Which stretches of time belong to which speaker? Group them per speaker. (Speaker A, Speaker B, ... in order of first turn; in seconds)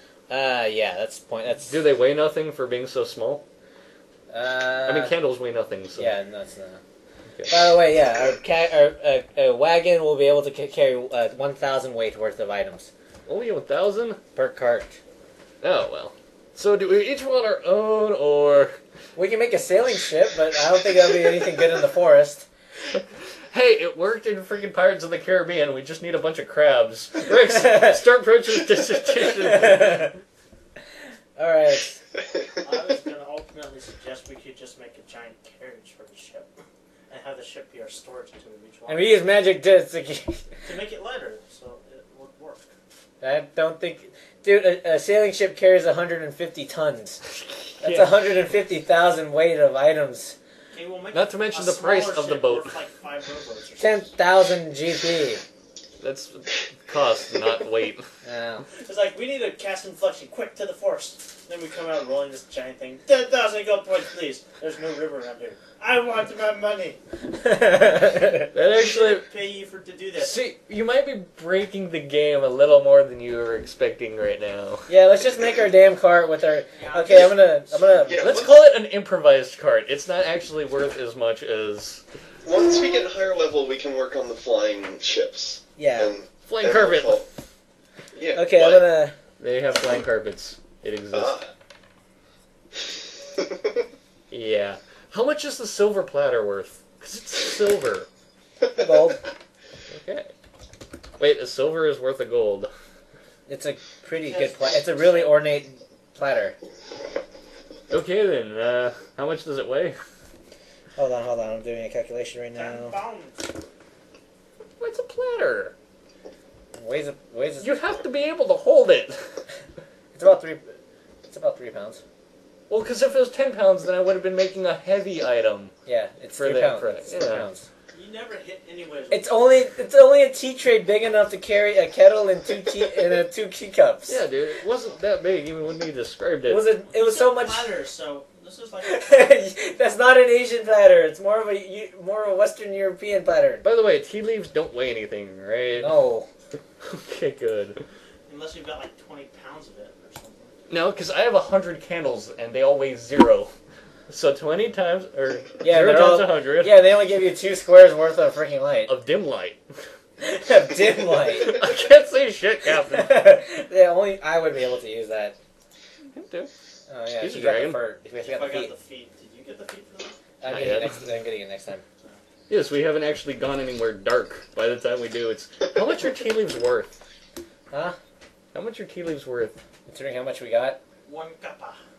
Speaker A: 0.3-1.7, 4.3-5.1, 6.0-6.8, 7.5-12.9, 14.4-14.9, 19.2-22.5, 27.3-28.0, 29.2-30.1, 31.4-32.0, 38.9-40.5, 43.2-47.2, 47.8-50.4, 53.8-55.4, 58.2-58.6, 67.3-68.5, 74.9-78.3, 85.8-86.1, 88.3-89.2, 98.7-99.2, 103.5-106.5, 111.0-113.0, 116.8-117.7, 120.2-120.8, 121.3-122.0, 125.9-127.7, 129.1-134.2, 136.5-137.7, 138.8-143.6, 145.8-146.3, 155.6-158.9, 160.2-161.6, 162.8-165.4, 166.9-168.7, 170.4-171.8, 177.7-178.0, 179.9-180.8
Speaker B: 1.7-3.4, 4.8-6.1, 7.3-7.6, 13.3-14.4, 15.6-18.8, 23.5-30.1, 47.6-48.2, 51.1-52.7, 56.0-58.0, 68.4-69.2, 70.2-74.9, 78.2-82.0, 86.5-87.3, 89.4-91.4, 94.3-98.1, 99.9-100.3, 101.2-102.7, 107.9-110.0, 114.8-115.7, 117.6-119.3, 122.7-125.7, 126.4-127.5, 134.1-136.7, 143.6-146.0, 146.8-147.8, 150.7-153.5, 154.1-156.8, 158.9-159.6, 161.3-163.3, 166.1-166.5, 167.2-167.8, 170.5-171.0, 172.5-176.9, 178.5-179.6
Speaker C: 32.6-36.5, 37.1-39.2, 40.6-42.7, 50.7-54.1, 58.8-67.0, 68.5-70.4, 76.7-78.0, 104.2-105.4, 112.5-113.5, 127.9-129.3, 136.9-139.1, 148.3-150.6, 168.2-170.2, 181.1-181.8
Speaker D: 78.0-78.6, 82.4-87.2, 88.1-88.8, 91.1-91.5